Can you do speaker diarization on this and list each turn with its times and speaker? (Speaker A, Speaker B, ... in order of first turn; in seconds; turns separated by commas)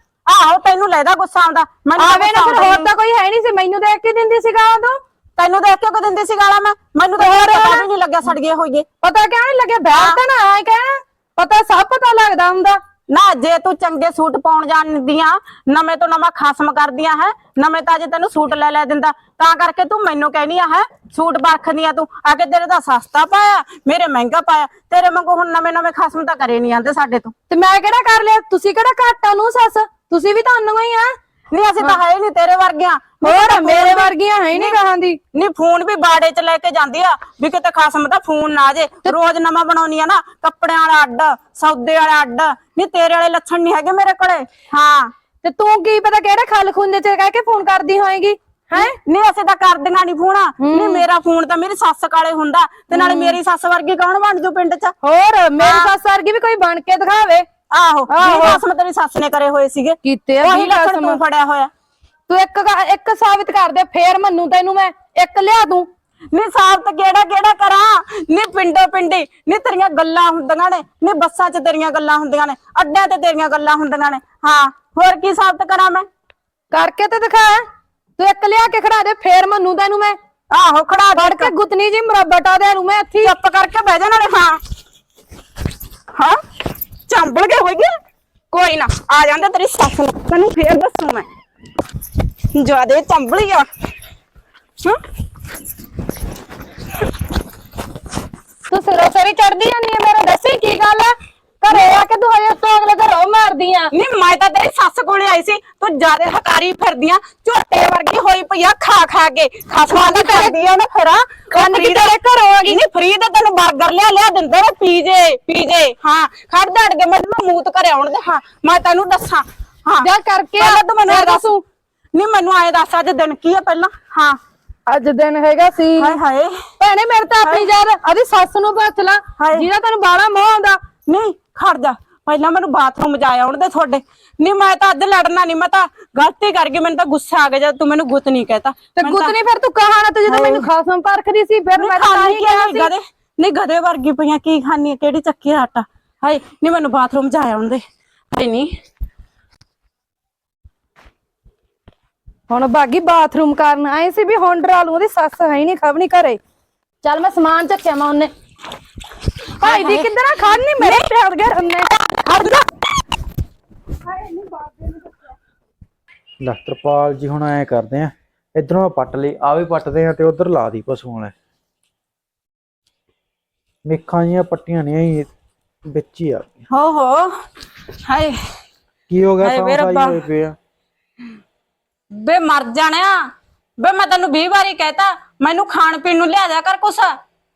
Speaker A: 0.3-2.9, Speaker B: 2.0-5.0, Speaker A: 5.4-8.8, Speaker B: 7.2-7.8, Speaker B: 9.0-12.8, Speaker A: 9.9-10.2, Speaker A: 13.1-27.3, Speaker B: 27.5-31.1, Speaker A: 31.5-34.8, Speaker B: 33.2-35.2, Speaker A: 35.3-45.1, Speaker B: 45.4-49.0, Speaker A: 48.7-54.9, Speaker B: 50.6-51.0, Speaker B: 52.9-53.4, Speaker B: 55.0-57.5, Speaker A: 55.6-55.9, Speaker A: 57.7-61.7, Speaker B: 58.1-58.6, Speaker B: 60.0-61.2, Speaker B: 62.3-65.9, Speaker A: 66.3-76.0, Speaker B: 76.7-77.6, Speaker B: 78.2-80.2, Speaker A: 80.5-81.5, Speaker B: 81.2-83.3, Speaker A: 83.2-84.6, Speaker A: 86.1-86.4, Speaker A: 87.1-87.9, Speaker A: 88.5-91.3, Speaker A: 92.5-93.7, Speaker B: 98.7-103.9, Speaker A: 101.7-101.9, Speaker A: 103.9-112.1, Speaker B: 109.9-110.6, Speaker B: 111.5-112.8, Speaker A: 112.6-120.1, Speaker B: 120.0-121.6, Speaker A: 120.6-121.5, Speaker A: 122.1-124.4, Speaker B: 124.9-126.2, Speaker A: 126.0-126.6, Speaker B: 126.8-130.8, Speaker A: 129.4-129.7, Speaker A: 131.1-139.3, Speaker B: 138.9-142.9, Speaker A: 140.3-140.7, Speaker A: 141.8-148.7, Speaker B: 152.5-156.4, Speaker B: 157.0-158.3, Speaker A: 159.6-161.1, Speaker B: 159.6-161.9, Speaker A: 161.9-162.7, Speaker C: 166.4-171.3, Speaker C: 173.8-175.3, Speaker C: 175.8-176.4, Speaker A: 176.7-177.4, Speaker A: 177.9-178.4, Speaker C: 179.1-180.5, Speaker A: 179.4-180.2, Speaker A: 182.2-183.2, Speaker A: 183.8-187.2